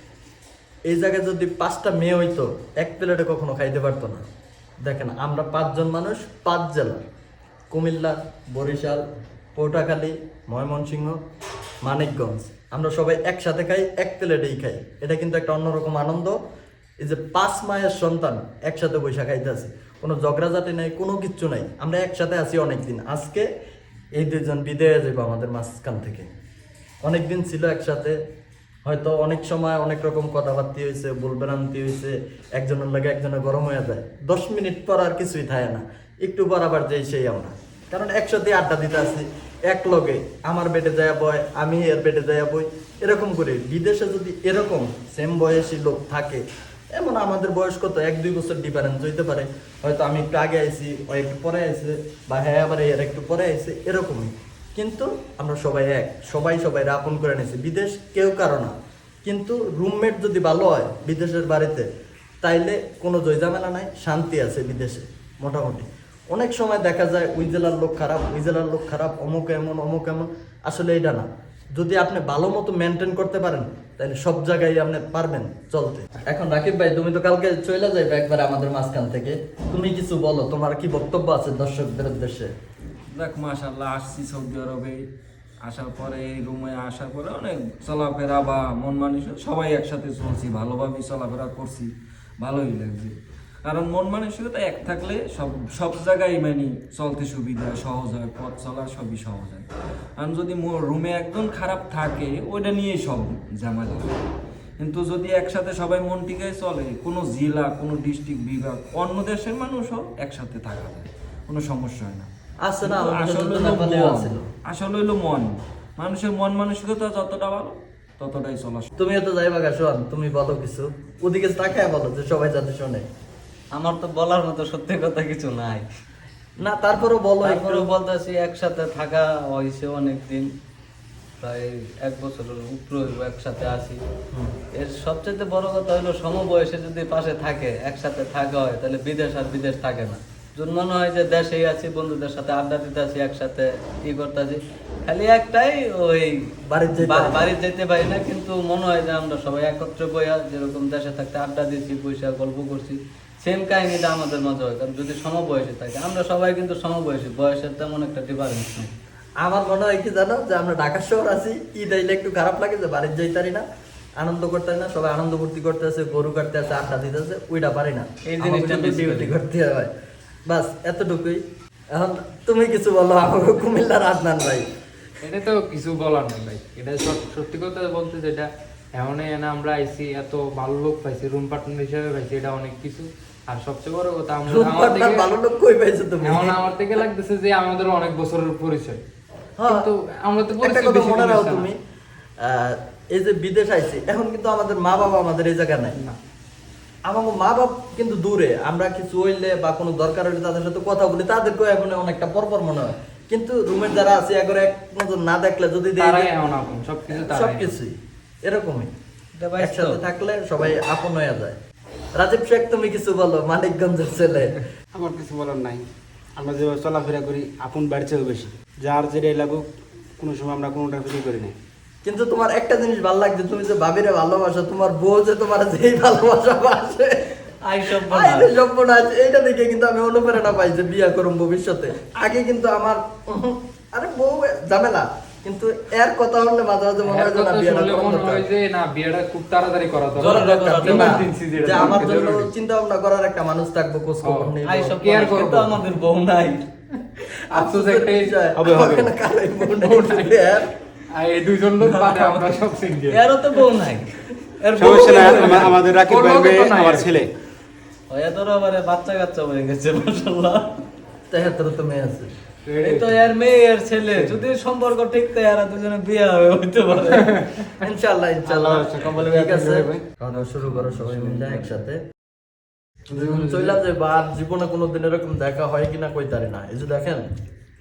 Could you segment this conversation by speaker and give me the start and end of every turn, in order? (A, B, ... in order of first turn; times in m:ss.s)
0:00.9-0:04.2 A
0:04.8-0:07.0 A
0:07.7-0:09.0 A
0:09.6-0:11.2 A
0:11.8-0:16.4 A
0:17.0-0:23.4 A
0:24.2-0:26.3 A
0:27.0-0:28.2 A
0:28.8-0:46.4 A
0:47.0-0:58.7 A
0:59.2-1:01.9 A
1:02.4-1:22.5 A
1:23.1-1:25.0 B
1:25.6-1:39.7 B
1:40.2-1:44.2 B
1:44.8-1:52.3 B
1:52.6-1:54.4 A
1:52.8-1:58.9 B
1:59.0-2:03.0 A
2:03.7-2:05.8 C
2:06.6-2:07.9 A
2:07.4-2:10.5 C
2:11.4-2:14.0 C
2:14.8-2:26.4 C
2:26.7-2:27.5 A
2:27.0-2:39.0 C
2:39.4-2:43.6 A
2:44.2-2:49.9 A
2:48.3-2:49.4 C
2:50.5-2:51.4 A
2:51.9-2:54.6 A
2:55.2-3:05.3 D
3:04.5-3:06.6 A
3:06.2-3:09.0 D
3:09.6-3:09.9 A
3:09.7-3:11.7 D
3:10.6-3:11.8 A
3:12.4-3:16.0 A
3:17.1-3:26.3 A
3:26.0-3:27.7 D
3:27.1-3:28.9 A
3:29.4-3:30.0 C
3:29.6-3:31.6 A
3:32.2-3:34.6 A
3:34.9-3:39.6 E
3:40.2-3:41.6 E
3:42.0-3:47.3 A
3:47.6-3:48.5 C
3:48.0-3:58.5 A
3:57.0-4:02.5 D
4:00.2-4:01.1 C
4:00.2-4:05.1 A
4:04.6-4:06.6 C
4:05.0-4:05.8 D
4:07.5-4:10.7 A
4:07.5-4:08.3 D
4:08.6-4:09.1 E
4:09.7-4:10.3 D
4:11.2-4:13.2 D
4:11.9-4:12.5 A
4:13.1-4:15.8 C
4:14.8-4:17.3 E
4:15.4-4:17.2 D
4:18.1-4:20.6 C
4:21.3-4:22.3 A
4:22.7-4:23.2 D
4:22.8-4:27.4 C
4:27.8-4:32.0 A
4:28.4-4:30.0 E
4:30.3-4:31.8 B
4:33.1-4:37.2 A